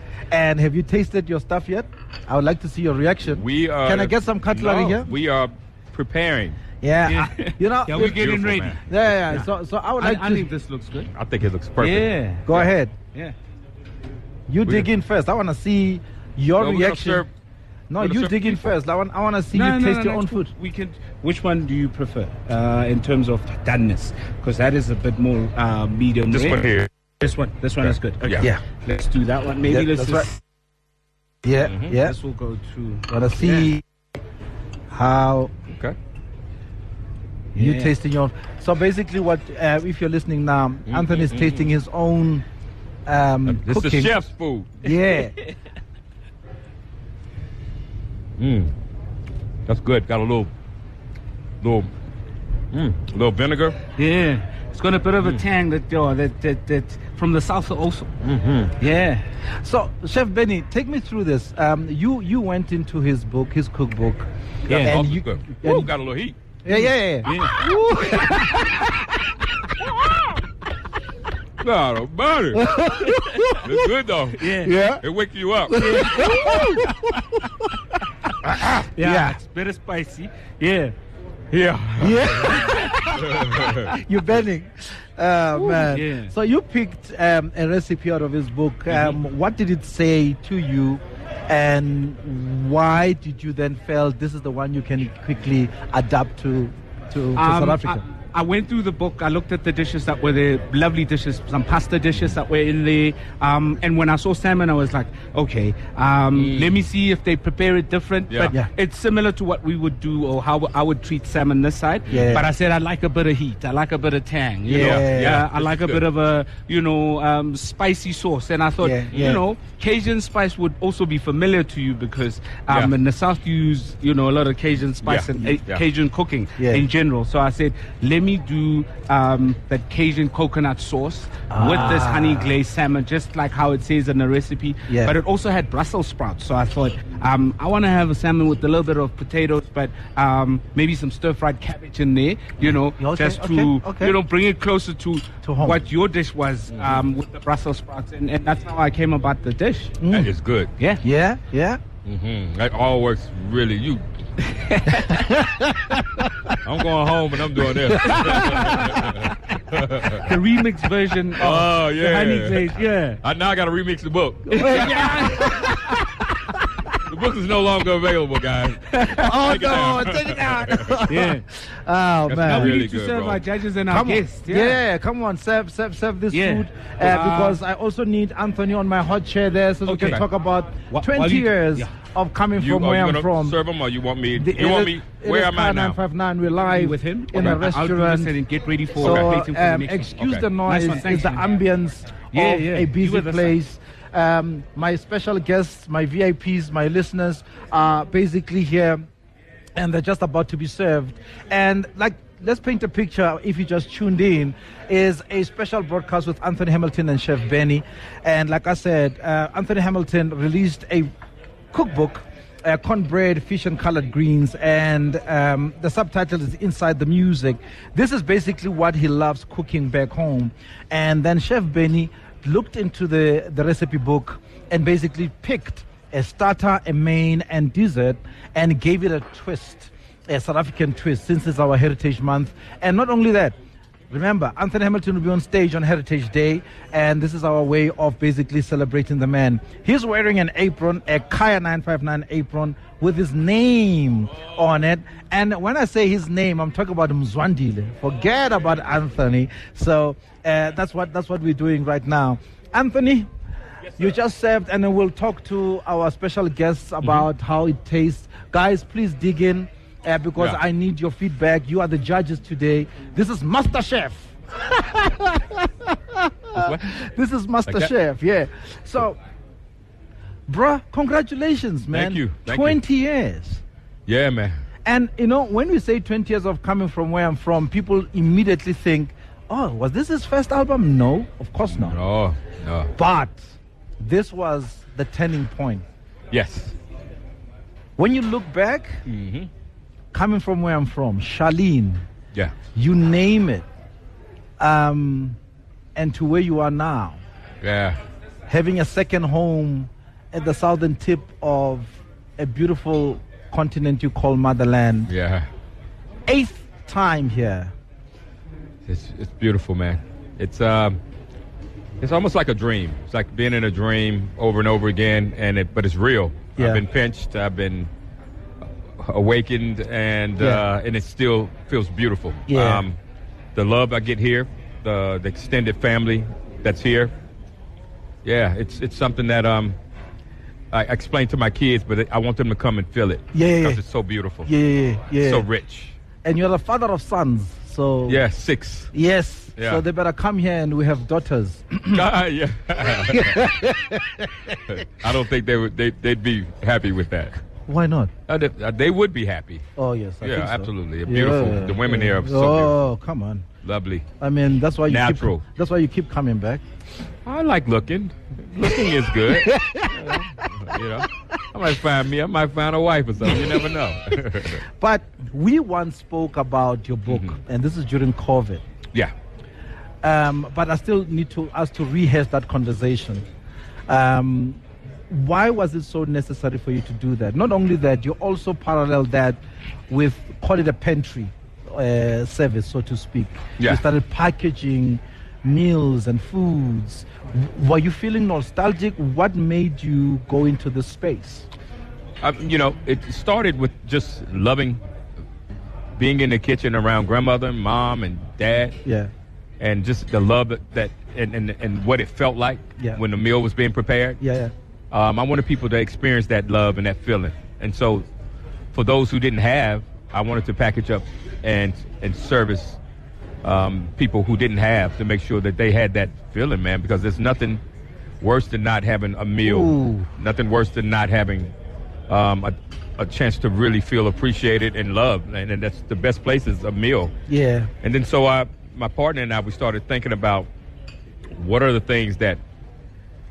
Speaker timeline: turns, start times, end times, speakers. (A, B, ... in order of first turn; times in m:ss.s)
0:00.3-0:05.1 A
0:03.3-0:06.6 B
0:06.8-0:08.2 A
0:07.1-0:09.5 C
0:07.9-0:08.8 B
0:08.9-0:10.5 A
0:10.0-0:11.1 C
0:11.1-0:12.1 B
0:11.8-0:13.3 C
0:12.4-0:12.9 A
0:14.5-0:17.2 A
0:16.6-0:17.3 B
0:17.9-0:20.5 A
0:18.0-0:18.7 B
0:19.5-0:30.4 C
0:26.3-0:26.9 B
0:27.8-0:28.5 B
0:29.6-0:30.3 A
0:31.4-0:32.2 A
0:31.6-0:31.9 B
0:31.9-0:33.7 C
0:33.1-0:33.8 A
0:34.9-0:35.5 A
0:37.5-0:37.9 C
0:37.6-0:42.4 A
0:40.9-0:41.7 B
0:43.0-0:44.1 A
0:43.4-0:44.7 B
0:44.8-0:45.3 A
0:48.4-0:48.7 B
0:49.7-0:50.5 B
0:51.6-0:51.9 B
0:52.7-0:53.8 B
0:54.0-0:58.1 C
0:58.2-0:58.7 B
0:58.8-0:59.2 C
0:59.6-1:04.3 A
1:04.7-1:05.0 C
1:04.7-1:06.4 B
1:04.8-1:05.9 A
1:06.6-1:08.9 A
1:06.7-1:07.7 C
1:11.6-1:12.8 B
1:12.6-1:13.1 A
1:13.5-1:14.5 B
1:14.4-1:14.8 C
1:14.6-1:15.0 A
1:15.0-1:16.6 B
1:15.7-1:16.9 A
1:15.8-1:16.2 C
1:18.4-1:19.4 A
1:19.0-1:20.9 C
1:21.5-1:23.9 B
1:22.0-1:38.0 A
1:25.5-1:26.3 C
1:28.9-1:29.2 C
1:37.4-2:30.0 C
1:46.3-1:46.8 B
1:48.3-1:48.5 B
1:52.1-1:52.5 A
1:52.1-1:52.4 B
1:54.7-1:55.4 A
1:54.7-1:56.0 B
1:58.8-1:59.2 A
1:59.1-1:59.4 B
2:05.0-2:05.8 B
2:06.6-2:06.9 A
2:11.5-2:12.6 A
2:14.9-2:15.2 A
2:23.0-2:24.2 A
2:25.4-2:25.8 A
2:26.7-2:27.0 B
2:30.0-2:30.3 A
2:30.1-2:30.7 B
2:30.8-2:31.0 C
2:31.0-2:31.8 A
2:32.0-2:34.0 B
2:34.5-2:35.3 C
2:35.3-2:36.2 A
2:36.6-2:40.3 B
2:37.9-2:38.9 A
2:38.1-2:38.5 C
2:40.1-2:43.2 C
2:41.4-2:45.8 B
2:44.5-2:45.5 C
2:44.5-2:46.0 A
2:47.1-2:51.0 B
2:48.9-2:49.2 C
2:49.2-2:52.8 A
2:51.0-2:51.4 C
2:52.2-2:53.4 B
2:52.4-2:54.8 C
2:53.9-3:03.6 A
2:56.3-2:57.6 C
2:59.8-3:00.2 C
3:00.9-3:01.9 C
3:02.6-3:06.0 B
3:04.4-3:08.4 A
3:06.6-3:11.4 C
3:09.0-3:19.1 A
3:09.0-3:09.4 B
3:10.2-3:10.4 B
3:12.3-3:13.6 C
3:19.7-3:31.1 A
3:31.7-3:53.5 A
3:54.1-4:13.3 A
4:14.0-4:29.2 A
4:26.5-4:26.9 B
4:30.5-4:33.6 A
4:31.9-4:32.8 B
4:34.1-4:34.6 B
4:34.8-4:42.0 A
4:41.7-4:42.9 B
4:43.0-4:45.8 A
4:46.3-4:46.8 B
4:48.0-4:49.0 A
4:49.1-4:49.5 B
4:50.1-4:52.0 A
4:52.7-4:53.6 A
4:54.6-4:55.4 A
4:55.9-4:57.2 A
4:57.6-4:58.0 B
4:58.5-5:05.1 A
5:05.1-5:05.5 B
5:06.3-5:07.7 A
5:08.9-5:11.0 B
5:12.0-5:17.9 B
5:16.6-5:16.8 A
5:19.0-5:23.0 B
5:20.4-5:20.6 A
5:22.5-5:22.8 A
5:23.5-5:27.1 B
5:28.2-5:29.8 B
5:30.7-5:34.5 B
5:33.3-5:33.8 A
5:34.4-5:35.5 A
5:35.2-5:36.0 B
5:36.2-5:38.2 A
5:38.1-5:38.9 B
5:38.9-5:42.0 A
5:39.6-5:39.8 B
5:41.9-5:43.5 B
5:43.1-5:44.6 A
5:44.7-5:47.4 B
5:47.6-5:48.1 A
5:48.3-5:49.6 B
5:49.8-5:53.5 A
5:50.2-5:52.7 B
5:53.6-5:54.1 B
5:54.2-5:56.6 A
5:54.9-5:55.4 B
5:57.2-6:04.6 B
5:59.3-6:00.2 A
6:03.3-6:03.6 A
6:04.8-6:08.6 A
6:07.1-6:07.3 B
6:10.0-6:13.2 A
6:13.9-6:31.5 A
6:32.2-6:34.8 B
6:36.0-6:38.8 B
6:38.8-6:39.1 A
6:39.6-6:44.2 B
6:44.2-6:44.5 A
6:44.9-6:48.0 B
6:48.7-6:52.8 B
6:53.4-6:57.6 B
6:58.2-7:01.5 B
6:59.4-7:00.1 A
7:02.1-7:07.1 B
7:07.3-7:07.7 A
7:07.8-7:10.5 B
7:11.3-7:12.4 B